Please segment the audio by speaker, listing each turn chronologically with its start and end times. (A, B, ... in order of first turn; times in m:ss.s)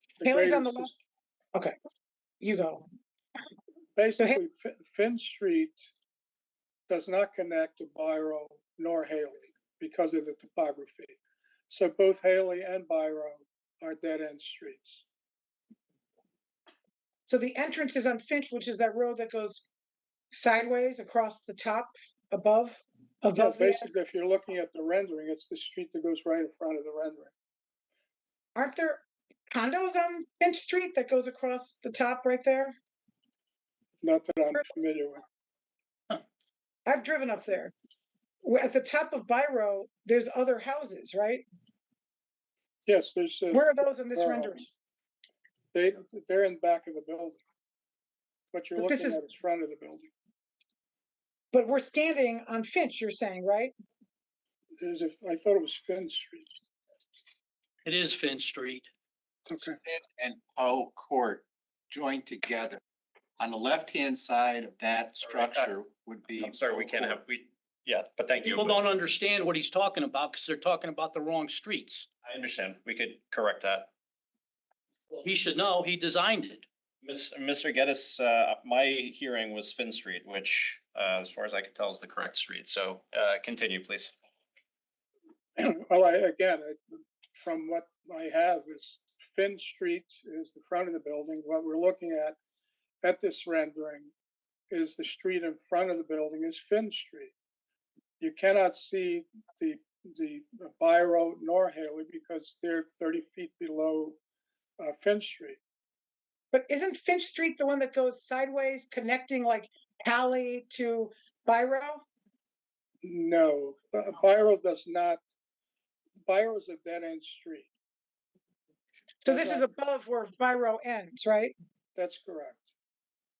0:00.2-0:00.9 A
0:00.2-0:00.9 B
0:02.4-0:02.9 B
0:04.0-0:05.8 A
0:06.9-0:11.2 A
0:11.7-0:15.0 A
0:17.3-0:19.7 B
0:20.3-0:23.9 B
0:23.4-0:27.3 A
0:28.6-0:32.8 B
0:34.0-0:35.2 A
0:36.9-0:37.7 B
0:38.4-0:41.4 B
0:42.9-0:44.7 A
0:43.5-0:44.6 B
0:45.7-0:47.4 A
0:48.5-0:50.1 A
0:48.8-0:49.2 B
0:51.5-0:53.7 B
0:54.8-0:56.5 A
0:57.8-0:58.9 C
0:59.5-0:59.8 A
0:59.8-1:02.8 D
1:03.4-1:07.2 D
1:05.3-1:05.7 E
1:06.4-1:08.8 E
1:08.4-1:12.1 C
1:12.2-1:13.9 E
1:15.1-1:16.7 C
1:17.0-1:24.2 E
1:25.6-1:32.4 A
1:33.0-1:34.1 A
1:34.7-1:37.3 A
1:38.2-1:44.2 A
1:44.8-1:45.6 A
1:46.5-1:52.0 B
1:53.0-1:55.2 A
1:56.2-1:57.7 A
1:59.2-2:01.5 B
1:59.3-1:59.7 A
2:02.0-2:02.7 A